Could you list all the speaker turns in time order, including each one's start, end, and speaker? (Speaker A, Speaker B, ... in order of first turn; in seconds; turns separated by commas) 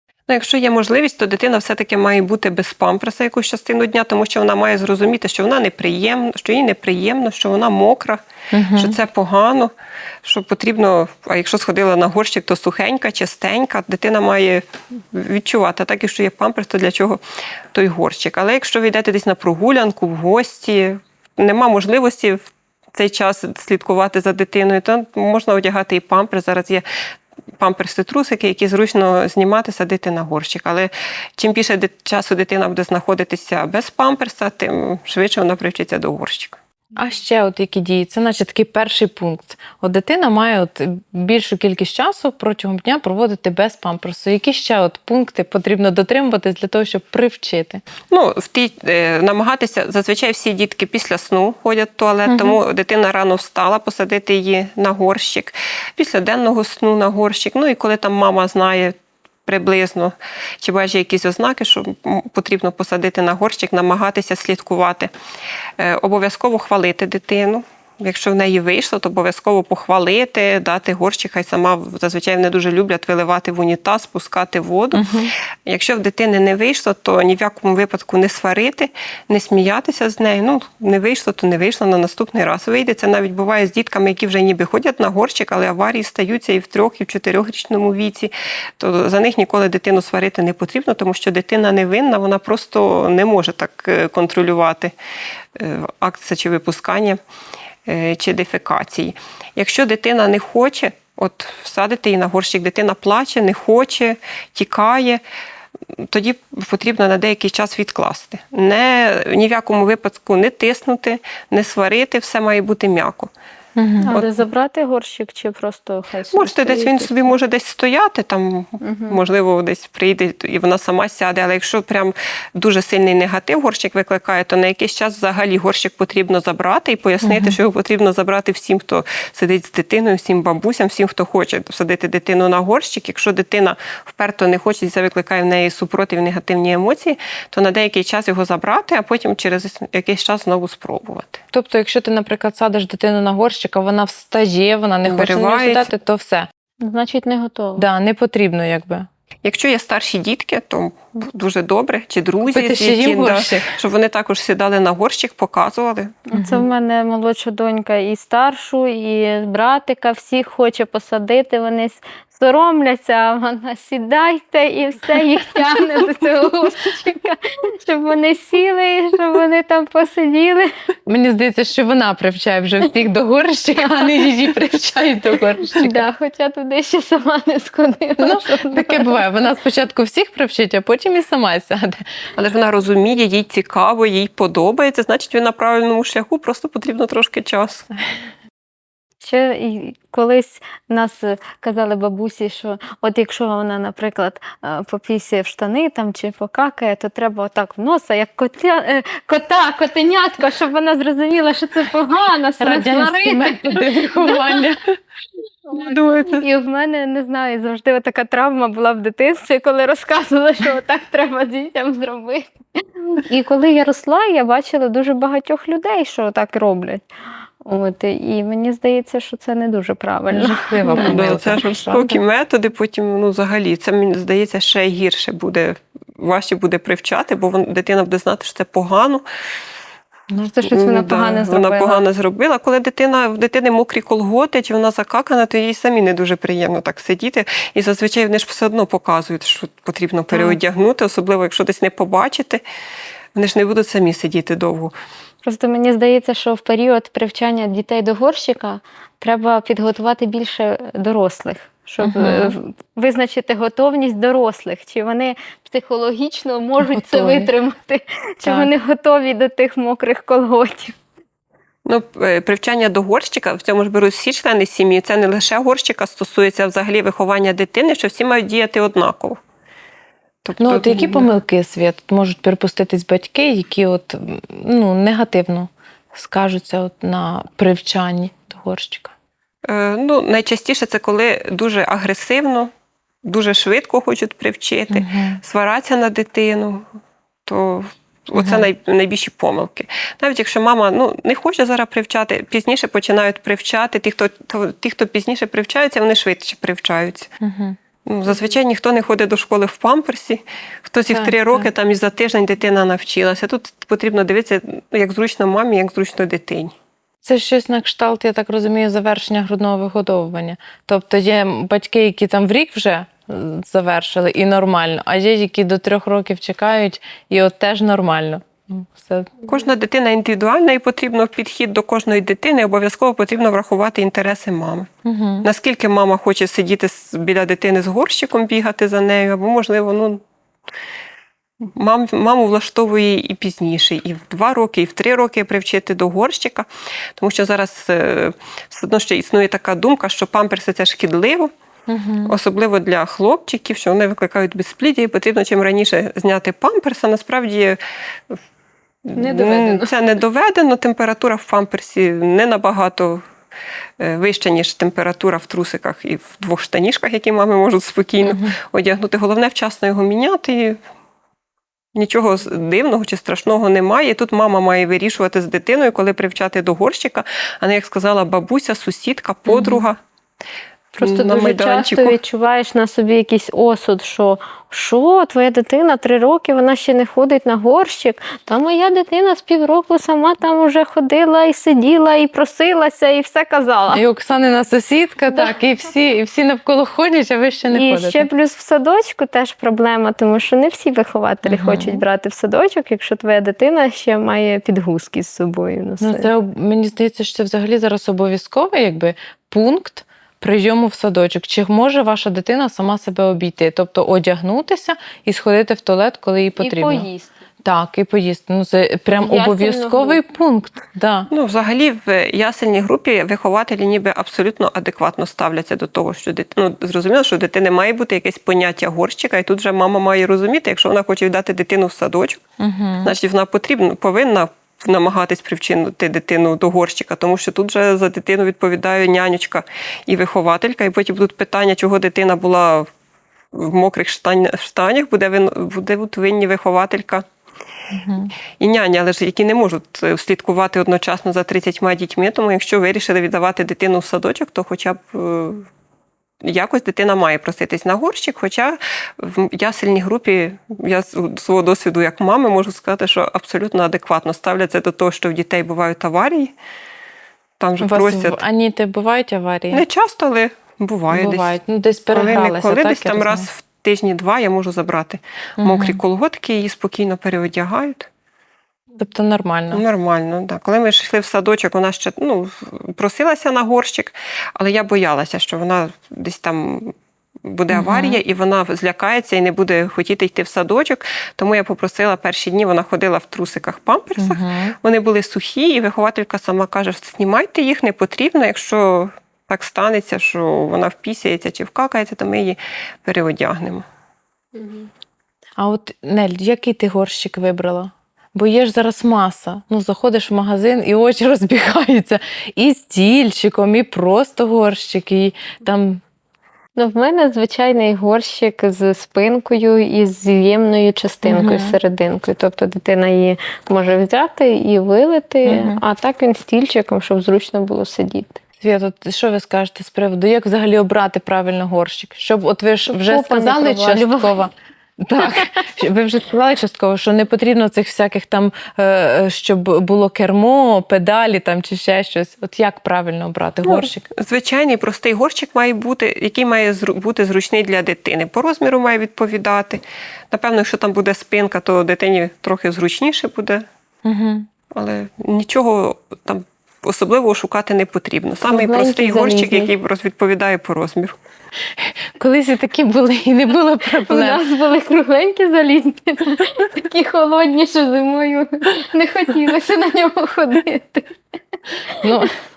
Speaker A: 0.3-8.2, Speaker B: 8.5-9.0, Speaker A: 8.7-17.2, Speaker A: 17.7-26.9, Speaker A: 27.6-36.6, Speaker B: 37.0-47.8, Speaker A: 48.1-65.1, Speaker B: 52.3-52.6, Speaker A: 65.8-95.0, Speaker B: 74.9-75.3, Speaker A: 95.5-97.2, Speaker A: 97.9-105.2, Speaker A: 105.9-113.3, Speaker B: 113.8-114.1, Speaker C: 114.0-117.3, Speaker A: 114.1-114.4, Speaker A: 116.3-141.4, Speaker C: 118.8-119.2, Speaker B: 127.2-127.6, Speaker B: 141.5-146.5, Speaker A: 145.1-145.9, Speaker C: 146.8-147.8, Speaker B: 147.8-149.1, Speaker A: 149.4-156.2, Speaker B: 152.5-153.7, Speaker C: 156.3-170.7, Speaker B: 156.3-156.6, Speaker B: 171.1-176.0, Speaker C: 173.8-174.2, Speaker C: 175.6-179.2, Speaker B: 178.2-182.0, Speaker A: 182.4-187.9, Speaker C: 189.2-204.7, Speaker B: 202.6-204.9, Speaker B: 205.8-206.4, Speaker C: 205.8-217.1, Speaker C: 217.6-221.3, Speaker B: 220.3-222.1, Speaker A: 221.0-229.2, Speaker C: 230.4-232.0, Speaker A: 230.7-242.6, Speaker A: 243.3-244.9, Speaker C: 245.4-260.9, Speaker B: 252.0-252.6, Speaker B: 256.9-257.5, Speaker B: 258.4-258.7, Speaker A: 261.9-269.4, Speaker A: 270.4-271.3, Speaker B: 270.6-279.1, Speaker A: 279.6-282.7, Speaker A: 283.2-286.9, Speaker B: 284.9-285.4, Speaker A: 287.5-297.3, Speaker B: 288.4-288.7, Speaker B: 297.4-297.8, Speaker A: 298.1-306.7, Speaker B: 301.1-301.7, Speaker B: 307.2-319.4, Speaker A: 319.5-324.9, Speaker B: 325.1-325.5, Speaker A: 325.4-330.2, Speaker A: 331.6-341.5, Speaker B: 341.9-342.4, Speaker A: 342.3-347.8, Speaker A: 349.1-353.2, Speaker C: 349.2-349.9, Speaker A: 354.0-360.8, Speaker B: 358.2-358.6, Speaker A: 361.9-370.0, Speaker B: 369.5-369.8, Speaker C: 371.0-384.0, Speaker A: 371.0-372.2, Speaker B: 383.9-388.3, Speaker C: 385.3-385.6, Speaker C: 387.7-396.3, Speaker B: 391.4-392.0, Speaker B: 396.0-407.1, Speaker C: 406.6-407.3, Speaker B: 407.6-411.3, Speaker C: 409.2-410.2, Speaker A: 411.3-422.4, Speaker B: 422.6-423.1, Speaker A: 423.0-432.9, Speaker A: 433.5-437.3, Speaker B: 437.9-438.3, Speaker A: 438.6-445.7, Speaker A: 446.4-456.6, Speaker A: 457.6-458.4, Speaker B: 457.8-459.9, Speaker A: 459.7-461.6, Speaker B: 461.1-463.5, Speaker A: 462.1-468.1, Speaker B: 465.6-466.0, Speaker B: 469.0-469.8, Speaker A: 469.7-493.9, Speaker B: 477.7-478.2, Speaker B: 484.2-484.8, Speaker C: 494.6-494.9, Speaker B: 495.6-506.0, Speaker C: 506.8-518.4, Speaker B: 511.2-511.8, Speaker B: 515.5-515.8, Speaker B: 518.6-534.1, Speaker C: 522.9-524.4, Speaker A: 533.7-543.7, Speaker B: 544.0-544.5, Speaker A: 544.7-551.2, Speaker C: 548.4-549.7, Speaker B: 551.8-554.4, Speaker C: 554.1-561.2, Speaker B: 562.0-562.3